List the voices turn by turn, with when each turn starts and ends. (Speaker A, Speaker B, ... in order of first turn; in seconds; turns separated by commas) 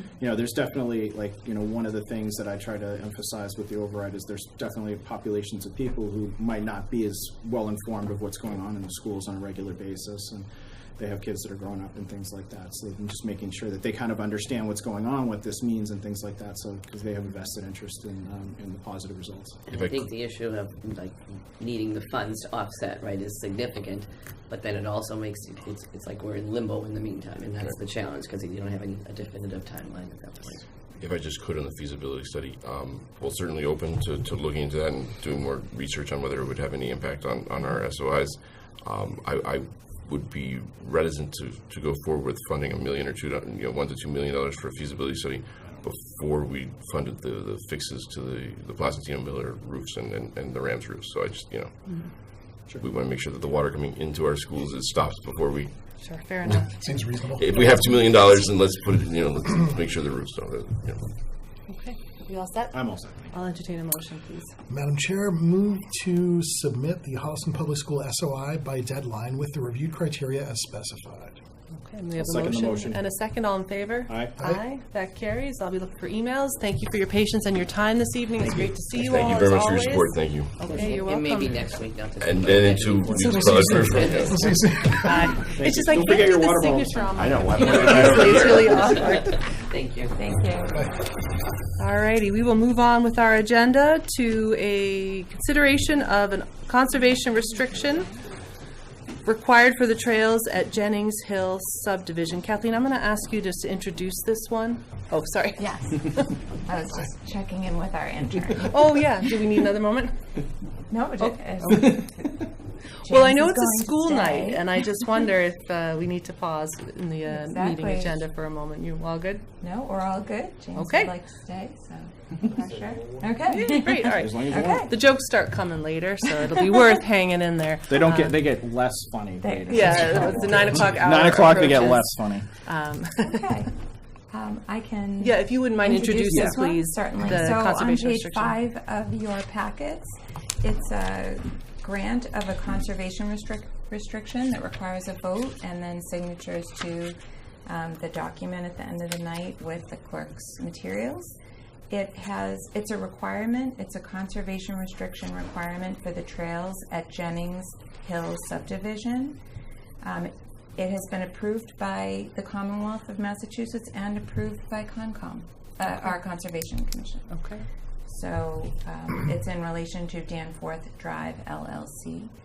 Speaker A: 0.2-19.6, Speaker B: 19.7-20.1, Speaker C: 19.9-23.9, Speaker C: 24.5-30.5, Speaker B: 31.0-55.7, Speaker D: 56.0-56.9, Speaker E: 56.7-57.8, Speaker B: 57.4-61.1, Speaker D: 61.7-64.5, Speaker A: 62.7-63.3, Speaker E: 64.7-71.4, Speaker D: 71.8-81.8, Speaker A: 72.2-73.0, Speaker A: 74.1-74.3, Speaker B: 78.9-80.7, Speaker C: 80.8-83.0, Speaker B: 82.2-84.5, Speaker E: 83.1-85.4, Speaker C: 83.9-84.3, Speaker D: 85.0-89.5, Speaker A: 85.4-88.7, Speaker B: 87.2-88.8, Speaker C: 89.7-90.1, Speaker F: 90.1-90.8, Speaker E: 90.7-91.0, Speaker D: 91.8-98.1, Speaker D: 99.2-106.3, Speaker F: 105.6-108.9, Speaker D: 108.6-110.2, Speaker F: 110.9-112.5, Speaker D: 111.2-112.1, Speaker F: 113.0-114.8, Speaker D: 113.0-119.4, Speaker F: 117.2-118.2, Speaker F: 119.6-124.9, Speaker D: 120.7-121.2, Speaker D: 123.5-128.4, Speaker A: 124.0-124.9, Speaker A: 127.9-132.5, Speaker F: 129.4-131.5, Speaker D: 129.7-133.6, Speaker F: 133.2-133.7, Speaker F: 134.3-151.3, Speaker D: 135.2-138.6, Speaker A: 136.3-136.6, Speaker F: 151.9-159.4, Speaker F: 160.0-167.4, Speaker D: 167.3-167.7, Speaker F: 168.1-172.3